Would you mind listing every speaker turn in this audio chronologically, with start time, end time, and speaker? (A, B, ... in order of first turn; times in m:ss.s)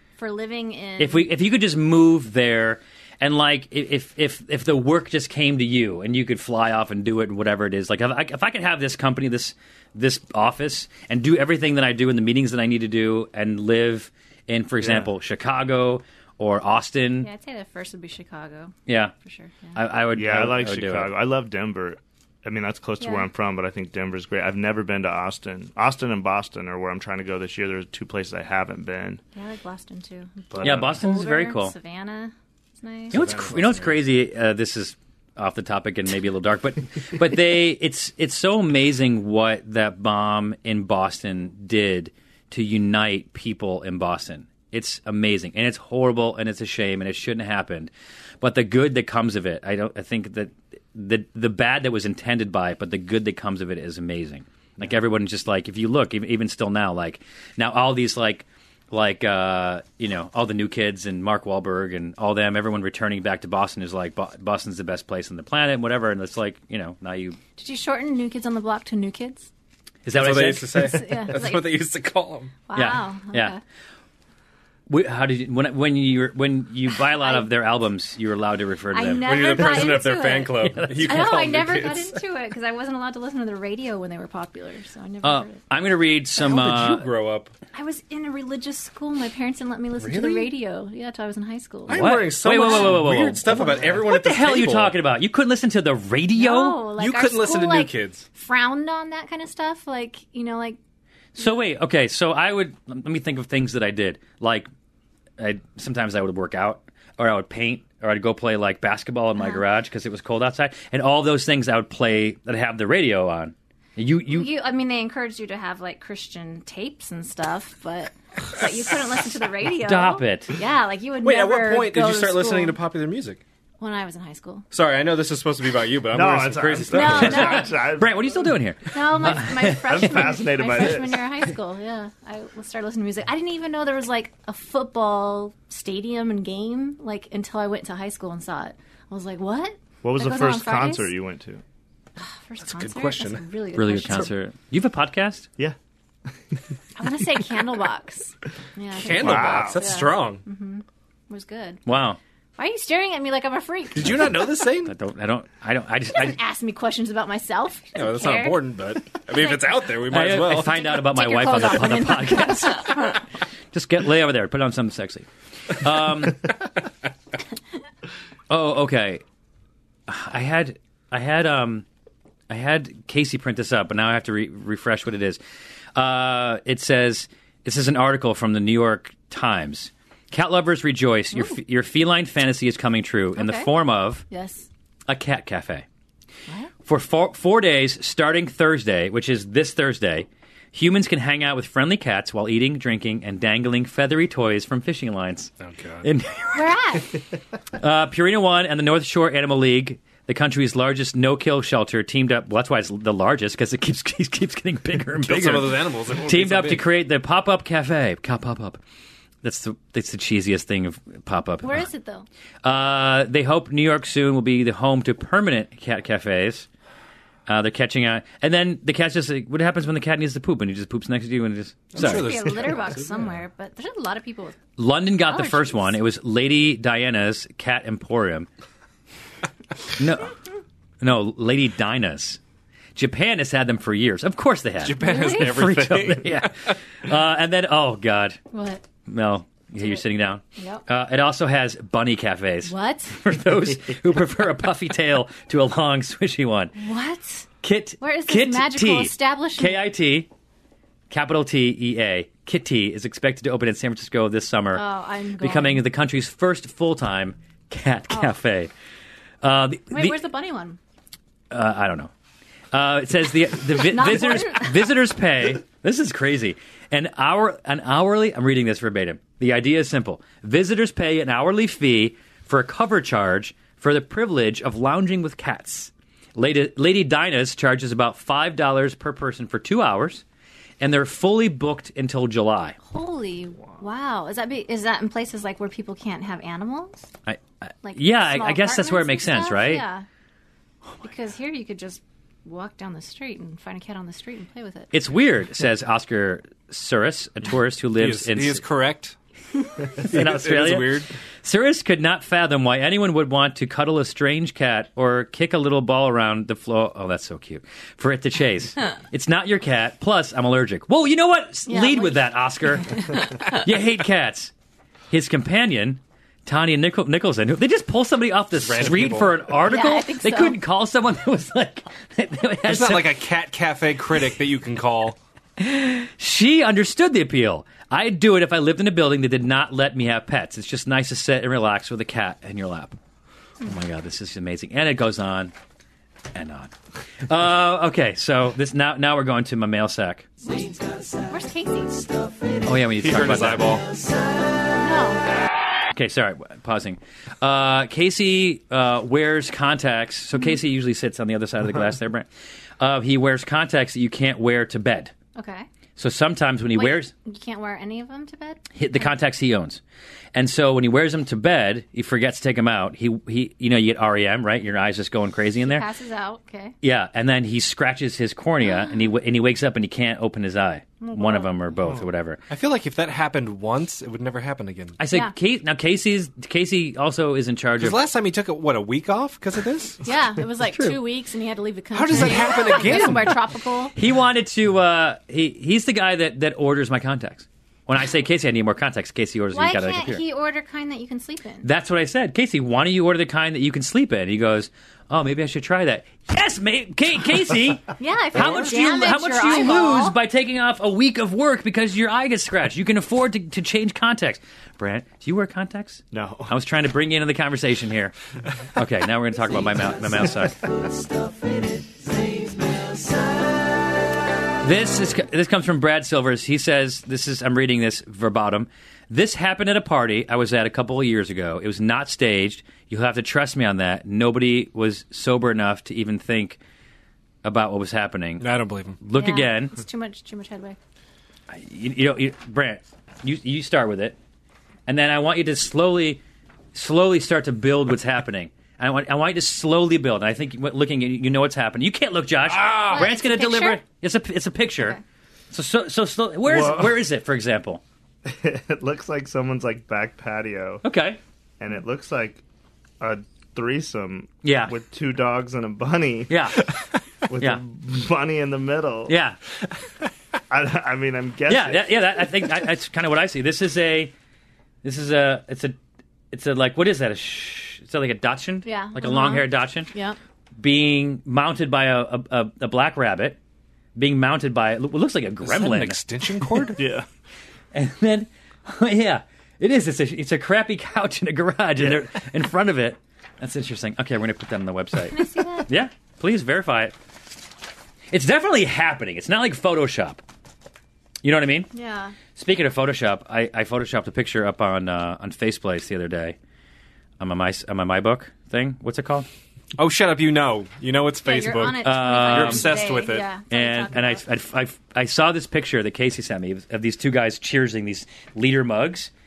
0:00.2-0:01.3 A
0:01.0-0:17.3 B
0:14.8-0:15.1 C
0:17.2-0:19.8 A
0:18.9-0:19.1 B
0:19.8-0:21.1 B
0:20.2-0:29.2 C
0:23.0-0:23.3 A
0:29.4-0:33.2 A
0:30.5-0:31.0 C
0:30.6-0:31.8 B
0:33.1-1:07.4 B
0:33.1-0:34.0 D
1:07.6-1:09.5 A
1:10.0-1:11.0 B
1:10.1-1:12.5 D
1:10.7-1:11.9 A
1:12.7-1:13.6 A
1:12.8-1:13.6 B
1:14.9-1:20.0 B
1:17.1-1:17.5 A
1:18.9-1:25.7 A
1:19.2-1:22.2 D
1:20.6-1:21.4 B
1:25.2-1:27.1 B
1:26.4-1:27.5 D
1:27.7-1:33.9 A
1:30.0-1:30.5 D
1:31.9-1:35.0 D
1:31.9-1:36.8 B
1:36.4-1:40.8 A
1:37.0-1:38.3 D
1:41.4-1:44.7 B
1:45.4-1:54.5 B
1:49.4-1:49.6 A
1:54.3-2:02.8 A
1:59.8-2:00.5 B
2:01.2-2:03.4 D
2:03.8-2:04.7 A
2:04.7-2:07.6 D
2:06.1-2:08.5 C
2:06.9-2:07.9 A
2:07.2-2:10.2 B
2:08.9-2:21.1 A
2:09.8-2:11.2 C
2:20.0-2:21.6 C
2:22.2-2:24.4 A
2:22.6-2:23.5 D
2:23.8-2:25.5 B
2:27.0-2:31.8 A
2:29.0-2:30.4 D
2:29.1-2:29.8 C
2:31.9-2:32.2 B
2:32.6-2:34.5 A
2:33.9-2:34.9 D
2:34.8-2:36.4 B
2:36.2-2:39.7 A
2:38.0-2:40.8 D
2:40.1-2:43.0 B
2:40.6-2:43.2 A
2:43.7-2:46.5 B
2:48.5-2:49.2 B
2:50.1-2:51.8 B
2:52.5-2:55.4 B
2:56.0-3:04.2 B
3:03.4-3:03.7 A
3:04.3-3:04.7 A
3:05.1-3:05.8 B
3:06.8-3:17.0 B
3:15.6-3:16.1 D
3:16.5-3:17.2 A
3:17.8-3:28.8 B
3:25.2-3:26.9 D
3:29.4-3:31.9 B
3:31.6-3:32.3 A
3:32.6-3:36.7 B
3:37.5-3:42.6 B
3:41.9-3:43.4 D
3:42.0-3:46.0 A
3:44.8-3:48.5 B
3:50.0-3:50.3 B
3:51.0-3:52.4 B
3:53.0-3:58.4 B
3:54.8-3:56.8 D
3:55.0-3:55.6 A
3:58.5-3:58.9 A
3:59.0-4:06.7 B
3:59.8-4:00.0 A
4:00.6-4:00.8 A
4:02.6-4:03.2 A
4:06.8-4:09.9 A
4:07.6-4:10.3 B
4:11.1-4:14.8 B
4:14.7-4:15.8 A
4:15.4-4:18.7 B
4:18.1-4:18.4 A
4:19.4-4:20.2 B
4:19.9-4:20.8 A
4:21.5-4:22.1 B
4:22.7-4:40.2 B
4:23.8-4:24.9 A
4:40.8-4:42.8 B
4:42.8-4:47.1 A
4:47.3-4:49.8 B
4:47.8-4:50.1 A
4:51.0-4:54.9 A
4:54.9-4:58.6 B
4:58.0-4:59.2 D
5:00.0-5:01.1 D
5:00.0-5:14.5 B
5:11.7-5:13.6 A
5:15.1-5:23.2 B
5:18.6-5:19.5 D
5:19.6-5:20.6 A
5:22.6-5:25.2 D
5:25.6-5:33.0 B
5:33.6-5:35.5 B
5:36.3-5:36.7 B
5:37.3-5:40.3 B
5:40.5-5:42.1 A
5:42.6-5:43.8 B
5:43.0-5:43.9 D
5:44.7-5:45.2 A
5:45.9-5:52.3 B
5:52.8-5:55.1 B
5:55.4-5:55.7 A
5:56.0-5:57.1 B
5:56.7-5:59.1 A
5:58.7-5:59.8 B
6:00.3-6:05.9 B
6:05.6-6:06.7 A
6:06.8-6:12.4 B
6:11.0-6:11.7 A
6:12.0-6:15.0 D
6:15.0-6:18.0 B
6:15.0-6:15.4 A
6:17.8-6:20.0 D
6:20.0-6:23.9 A
6:20.7-6:21.0 B
6:21.9-6:23.4 D
6:22.1-6:23.1 B
6:23.9-6:30.2 B
6:29.5-6:31.7 A
6:31.6-6:48.1 B
6:38.0-6:40.2 A
6:46.1-6:46.5 C
6:48.8-6:50.6 B
6:54.6-7:06.6 B
7:07.4-7:08.5 B
7:08.4-7:09.0 D
7:09.0-7:09.8 B
7:09.1-7:10.8 A
7:11.5-7:14.2 B
7:14.9-7:16.2 B
7:16.7-7:25.0 B
7:22.5-7:23.0 D
7:22.8-7:23.8 A
7:25.5-7:27.8 B
7:28.2-7:30.8 C
7:30.8-7:31.2 B
7:31.6-7:32.4 C
7:33.0-7:36.3 C
7:34.4-7:34.7 B
7:36.3-7:36.7 B
7:37.3-7:39.1 C
7:39.1-7:39.4 B
7:40.5-7:42.0 C
7:41.5-7:44.1 B
7:44.8-7:45.8 B
7:46.3-7:49.9 B
7:48.6-7:50.2 A
7:50.6-7:53.4 B
7:54.0-7:56.8 B
7:55.4-7:56.8 D
7:56.8-7:57.0 C
7:57.7-8:07.0 B
8:05.1-8:05.7 A
8:08.1-8:10.2 B
8:11.2-8:11.7 B
8:11.7-8:12.2 A
8:12.4-8:16.4 B
8:17.2-8:19.3 B
8:19.8-8:23.3 D
8:21.2-8:24.3 A
8:21.8-8:22.8 B
8:23.5-8:29.1 B